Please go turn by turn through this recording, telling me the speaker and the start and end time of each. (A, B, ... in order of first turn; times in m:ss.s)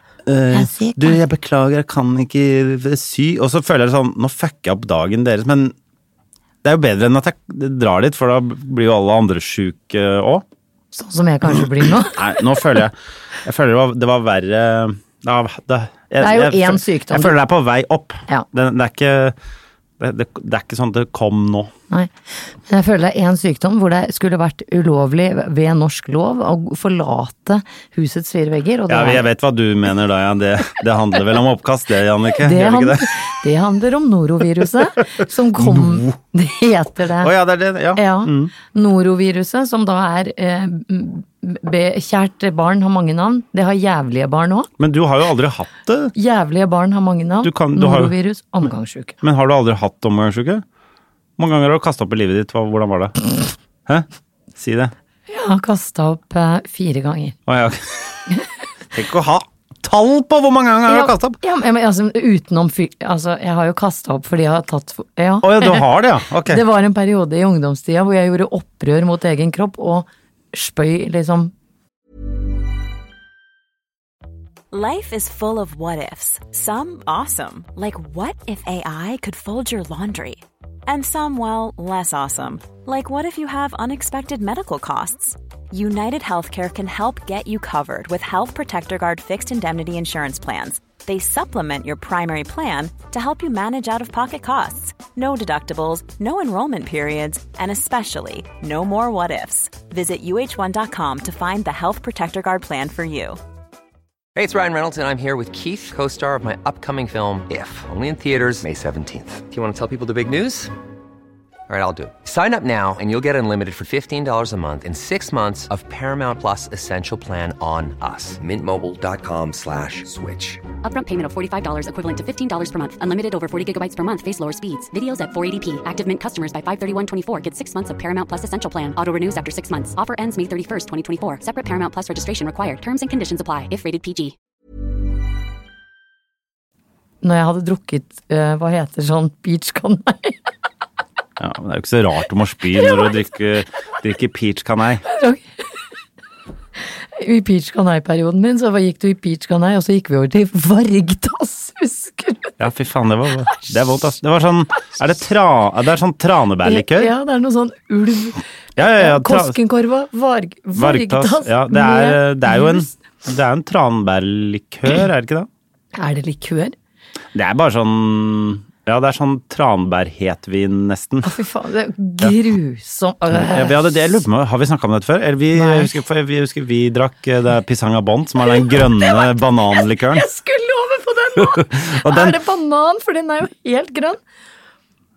0:00.2-0:05.7 A
0:00.5-0:01.2 B
0:06.6-0:10.4 A
0:10.9-0:12.6 B
0:12.0-0:19.4 A
0:16.2-0:17.4 B
0:20.0-0:21.7 A
0:21.9-0:29.2 B
0:28.9-0:33.1 A
0:32.4-0:37.3 B
0:35.6-0:36.2 A
0:37.2-0:38.5 A
0:38.0-0:44.7 B
0:44.8-0:46.1 A
0:46.1-0:49.2 B
0:47.4-0:48.1 A
0:49.2-0:50.6 A
0:51.4-0:53.2 A
0:53.8-0:54.9 A
0:55.3-0:57.4 B
0:57.5-0:58.2 A
0:58.9-1:01.4 A
1:00.9-1:05.9 B
1:05.4-1:06.6 A
1:06.5-1:11.5 B
1:14.7-1:43.4 C
1:44.4-1:50.7 D
1:51.7-2:00.6 D
2:00.8-2:14.3 E
2:17.2-2:20.4 B
2:21.4-2:25.0 A
2:25.0-2:25.5 B
2:27.2-2:32.6 B
2:32.6-2:37.1 A
2:36.6-2:42.9 B
2:38.8-2:39.6 A
2:40.7-2:45.5 A
2:45.9-2:46.7 B
2:47.3-2:51.4 A
2:51.2-2:53.8 B
2:53.3-3:00.2 A
2:55.5-2:55.9 B
2:58.4-3:04.2 B
3:01.4-3:02.4 A